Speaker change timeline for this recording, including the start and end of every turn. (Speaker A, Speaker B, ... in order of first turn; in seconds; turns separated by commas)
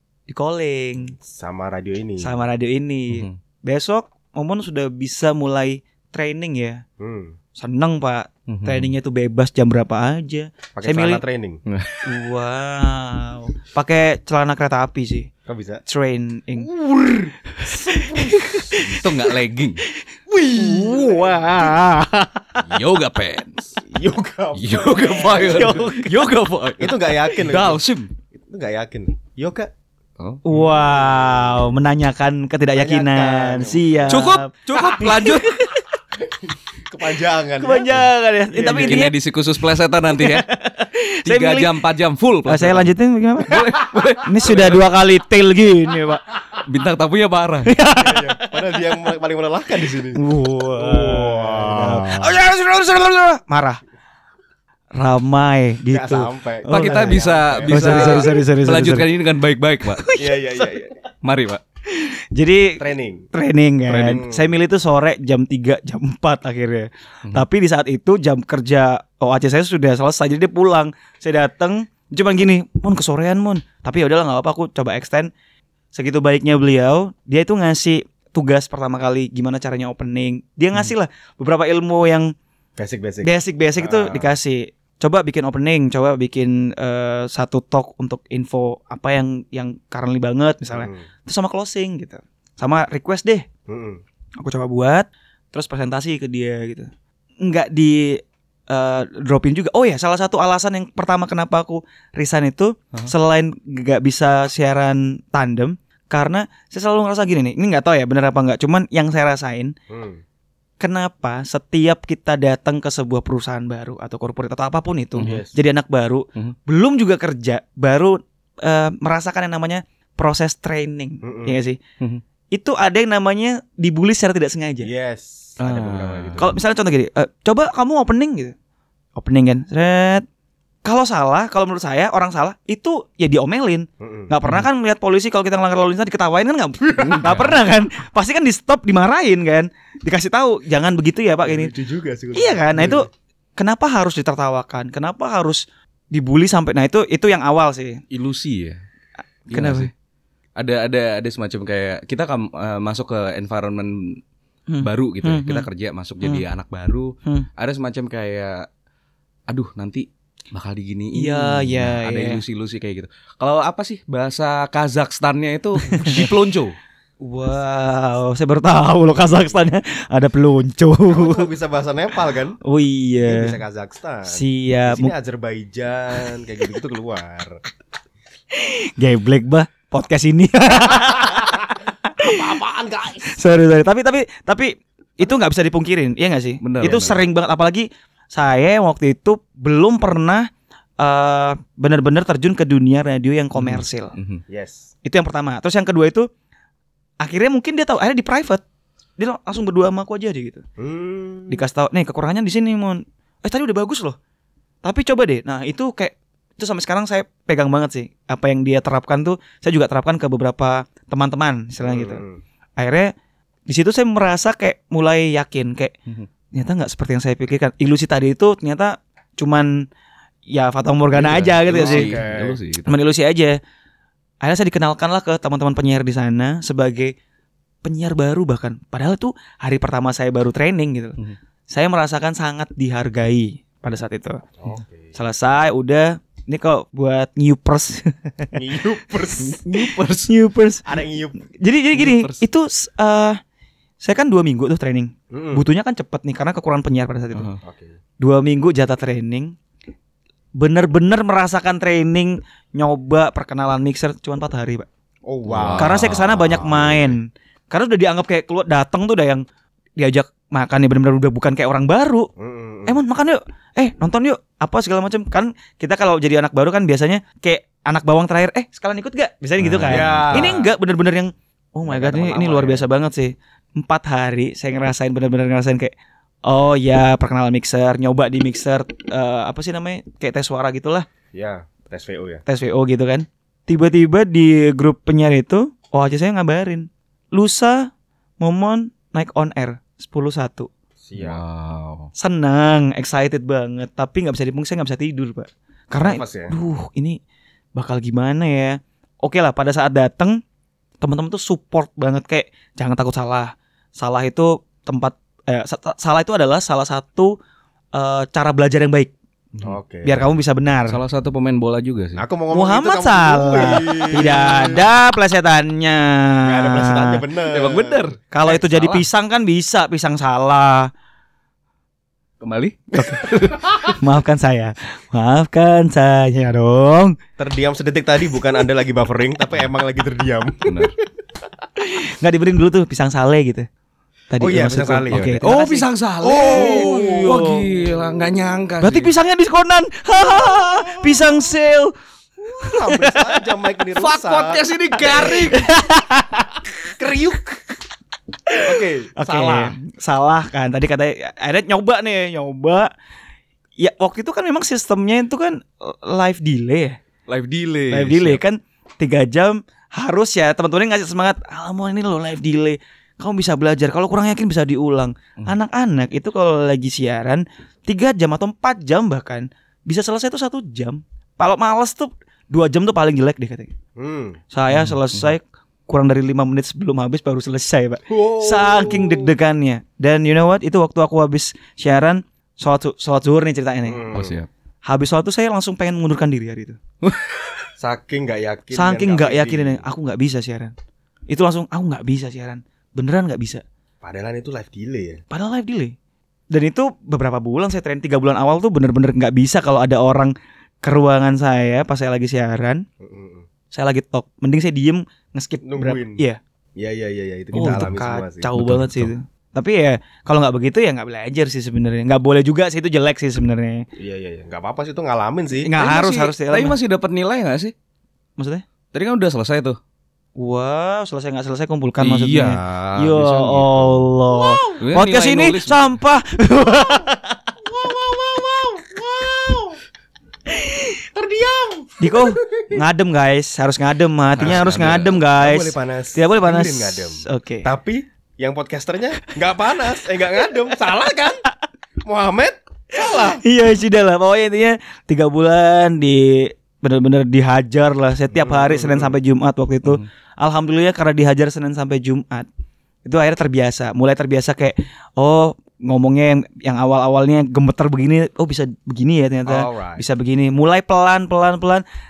Speaker A: 0.3-1.1, Speaker B: 1.2-2.4, Speaker A: 2.2-6.8, Speaker C: 3.1-3.4, Speaker B: 7.0-7.3, Speaker A: 7.6-11.2, Speaker C: 8.5-8.9, Speaker B: 10.8-11.6, Speaker C: 11.7-12.1, Speaker A: 12.0-15.3, Speaker B: 15.5-15.8, Speaker A: 15.9-16.7, Speaker B: 16.6-18.8, Speaker A: 17.6-19.2, Speaker C: 18.8-19.8, Speaker B: 20.3-21.8, Speaker A: 20.5-22.6, Speaker C: 22.6-23.8, Speaker B: 23.9-25.9, Speaker C: 24.6-28.1, Speaker A: 25.4-26.2, Speaker B: 26.8-27.8, Speaker B: 28.3-29.7, Speaker A: 30.4-35.9, Speaker B: 30.6-31.5, Speaker B: 32.8-34.2, Speaker C: 34.1-35.5, Speaker B: 36.9-38.0, Speaker A: 37.6-39.1, Speaker B: 38.5-39.0, Speaker C: 38.8-40.5, Speaker A: 40.2-41.7, Speaker C: 41.2-44.8, Speaker A: 42.5-46.2, Speaker C: 46.6-47.7, Speaker A: 47.6-49.0, Speaker B: 48.0-50.2, Speaker A: 50.1-53.8, Speaker B: 50.8-52.3, Speaker A: 54.9-59.0, Speaker B: 55.9-58.4, Speaker C: 56.7-60.0, Speaker A: 60.0-60.7, Speaker B: 60.1-61.0, Speaker C: 61.2-61.6, Speaker A: 61.9-62.8, Speaker B: 62.8-63.2, Speaker A: 63.3-75.3, Speaker B: 63.9-64.5, Speaker A: 75.9-82.3, Speaker B: 82.8-84.3, Speaker A: 83.2-93.5, Speaker B: 90.7-91.1, Speaker B: 93.7-94.0, Speaker A: 94.4-96.9, Speaker A: 97.4-109.7, Speaker B: 109.9-110.2, Speaker A: 110.8-121.8, Speaker C: 115.2-115.4, Speaker B: 115.2-115.5, Speaker B: 121.2-121.6, Speaker A: 122.5-124.9, Speaker B: 124.8-126.6, Speaker C: 125.6-126.5, Speaker A: 126.4-128.5, Speaker A: 129.2-130.2, Speaker A: 130.8-141.7, Speaker B: 134.0-134.3, Speaker C: 137.0-137.6, Speaker B: 141.5-143.1, Speaker A: 142.3-145.6, Speaker A: 146.1-148.0, Speaker C: 148.1-148.8, Speaker A: 149.5-149.9, Speaker C: 149.5-149.9, Speaker C: 150.6-154.2, Speaker A: 154.7-155.7, Speaker C: 154.8-158.7, Speaker C: 159.5-166.8, Speaker A: 161.1-162.4, Speaker A: 165.9-166.3, Speaker A: 167.2-171.5, Speaker B: 171.1-172.6, Speaker A: 172.6-173.6, Speaker B: 173.2-177.6, Speaker A: 174.3-175.1, Speaker A: 178.5-181.7, Speaker B: 182.2-183.4, Speaker A: 183.2-190.5, Speaker C: 186.6-187.2, Speaker A: 191.0-194.1, Speaker C: 193.6-194.4, Speaker B: 194.5-194.9, Speaker A: 195.1-196.3, Speaker A: 197.2-198.6, Speaker A: 199.2-200.6, Speaker B: 200.8-201.6, Speaker A: 201.5-204.2, Speaker A: 204.8-212.2, Speaker B: 211.8-212.4, Speaker A: 212.8-213.1, Speaker A: 213.7-215.9, Speaker A: 216.5-219.9, Speaker A: 220.5-222.2, Speaker C: 221.1-223.0, Speaker B: 221.7-222.6, Speaker A: 222.8-223.6, Speaker A: 224.4-227.1, Speaker A: 227.8-231.2, Speaker A: 231.7-234.4, Speaker B: 234.6-235.2, Speaker A: 235.1-238.6, Speaker B: 238.5-239.6, Speaker C: 239.4-240.3, Speaker A: 239.8-240.9, Speaker B: 240.9-241.4, Speaker A: 241.4-243.4, Speaker C: 241.9-242.5, Speaker A: 244.0-247.5, Speaker B: 245.3-245.6, Speaker C: 247.3-247.6, Speaker B: 247.6-248.0, Speaker A: 248.2-249.6, Speaker A: 250.6-254.9, Speaker B: 255.2-256.0, Speaker C: 255.5-257.1, Speaker A: 255.8-259.4, Speaker A: 260.0-262.3, Speaker B: 262.4-263.0, Speaker A: 262.9-275.9, Speaker C: 269.6-270.5, Speaker B: 269.8-270.7, Speaker B: 271.9-272.9, Speaker A: 276.5-281.1, Speaker B: 281.3-282.4, Speaker A: 282.5-287.9, Speaker A: 288.4-290.7, Speaker B: 291.0-291.4, Speaker C: 291.1-292.1, Speaker A: 292.1-297.2, Speaker B: 296.0-296.6, Speaker A: 297.8-300.4, Speaker A: 301.0-307.3, Speaker A: 307.9-309.1, Speaker B: 309.6-310.2, Speaker A: 310.0-311.0, Speaker C: 310.9-312.2, Speaker B: 312.1-314.9, Speaker A: 312.5-317.2, Speaker B: 316.4-318.0, Speaker C: 317.5-319.1, Speaker A: 318.3-320.9, Speaker C: 322.4-323.9, Speaker A: 324.0-327.1, Speaker B: 327.4-330.9, Speaker C: 330.6-330.9, Speaker A: 331.9-333.7, Speaker A: 334.3-335.9, Speaker B: 334.4-335.4, Speaker C: 335.1-339.1, Speaker B: 336.2-337.4, Speaker A: 336.4-337.7, Speaker A: 338.8-342.0, Speaker B: 342.4-345.5, Speaker A: 342.6-343.4, Speaker C: 344.0-345.7, Speaker A: 345.1-346.6, Speaker B: 347.0-347.6, Speaker A: 348.5-352.9, Speaker B: 348.6-349.8, Speaker A: 353.8-357.0, Speaker C: 357.3-358.4, Speaker A: 357.9-373.7, Speaker B: 374.0-374.4, Speaker A: 374.5-384.0, Speaker C: 374.7-375.3, Speaker B: 378.1-379.3, Speaker B: 383.9-384.4, Speaker C: 384.1-384.5, Speaker A: 384.9-386.8, Speaker C: 387.0-387.7, Speaker B: 387.8-389.8, Speaker A: 388.7-390.7, Speaker A: 391.3-393.6, Speaker B: 394.0-395.2, Speaker A: 395.3-395.9, Speaker A: 396.5-402.8, Speaker B: 403.0-403.5, Speaker A: 403.7-406.4, Speaker B: 405.6-406.2, Speaker B: 406.8-408.5, Speaker A: 407.5-413.8, Speaker C: 407.6-407.9, Speaker C: 408.5-409.1, Speaker B: 414.0-415.7, Speaker A: 415.6-416.8, Speaker C: 415.7-417.7, Speaker A: 418.4-418.6, Speaker C: 418.9-419.8, Speaker A: 420.4-427.3, Speaker C: 422.0-424.1, Speaker B: 424.4-424.7, Speaker C: 424.8-425.9, Speaker B: 426.8-427.1, Speaker B: 427.6-429.8, Speaker B: 431.1-432.8, Speaker A: 432.0-437.7, Speaker C: 434.4-435.2, Speaker B: 435.4-441.4, Speaker B: 442.0-443.4, Speaker A: 443.0-452.5, Speaker B: 448.3-449.1, Speaker A: 453.0-461.8, Speaker B: 459.5-460.0